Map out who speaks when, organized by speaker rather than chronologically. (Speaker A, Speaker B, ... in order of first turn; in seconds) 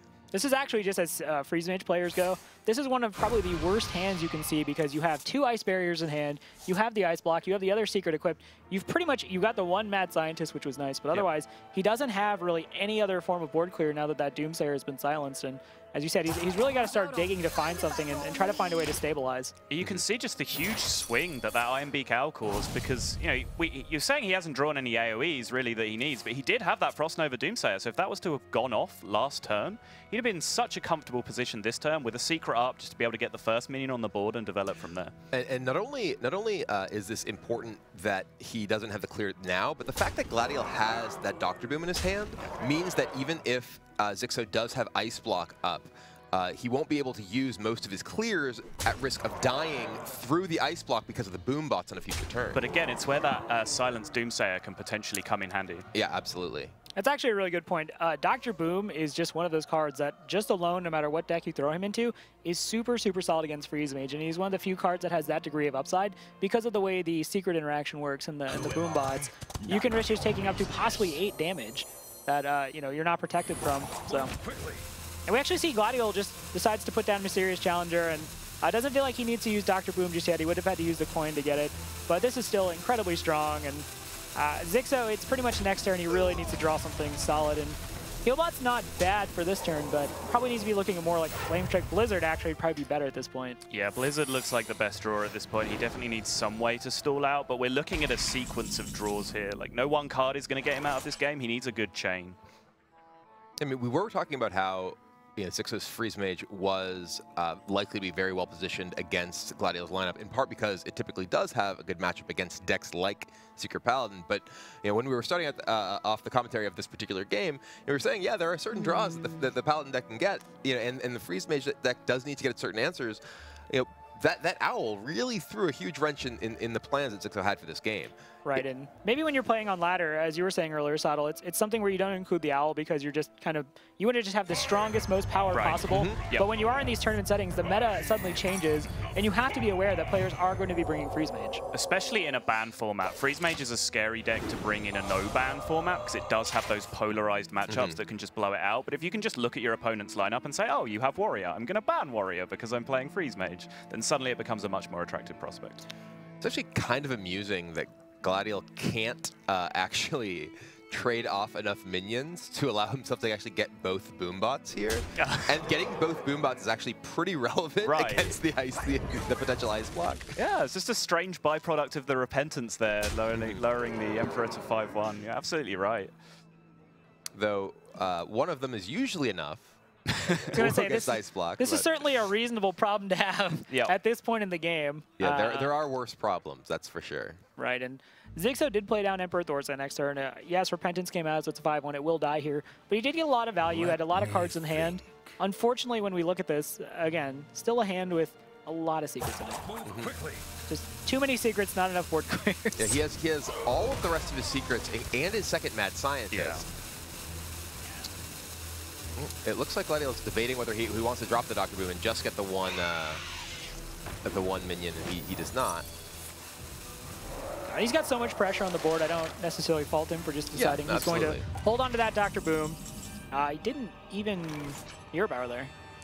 Speaker A: 0.3-19.5, 57.0-74.3, 75.3-93.6, 128.4-141.6, 180.5-185.7, 187.6-199.7, 200.7-202.9, 217.7-222.8, 223.3-225.7
Speaker B: 19.7-35.1, 52.5-55.9, 93.7-102.4, 135.5-136.4, 141.7-155.8, 165.2-165.5, 167.8-168.4, 170.3-176.1, 206.3-206.6
Speaker C: 35.3-52.6, 55.9-56.7, 103.6-128.6, 135.9-136.2, 147.7-148.0, 156.4-170.3, 173.3-173.6, 177.3-181.9, 185.2-187.4, 199.8-200.2, 202.8-206.7, 209.2-213.2, 214.2-215.9, 220.5-221.4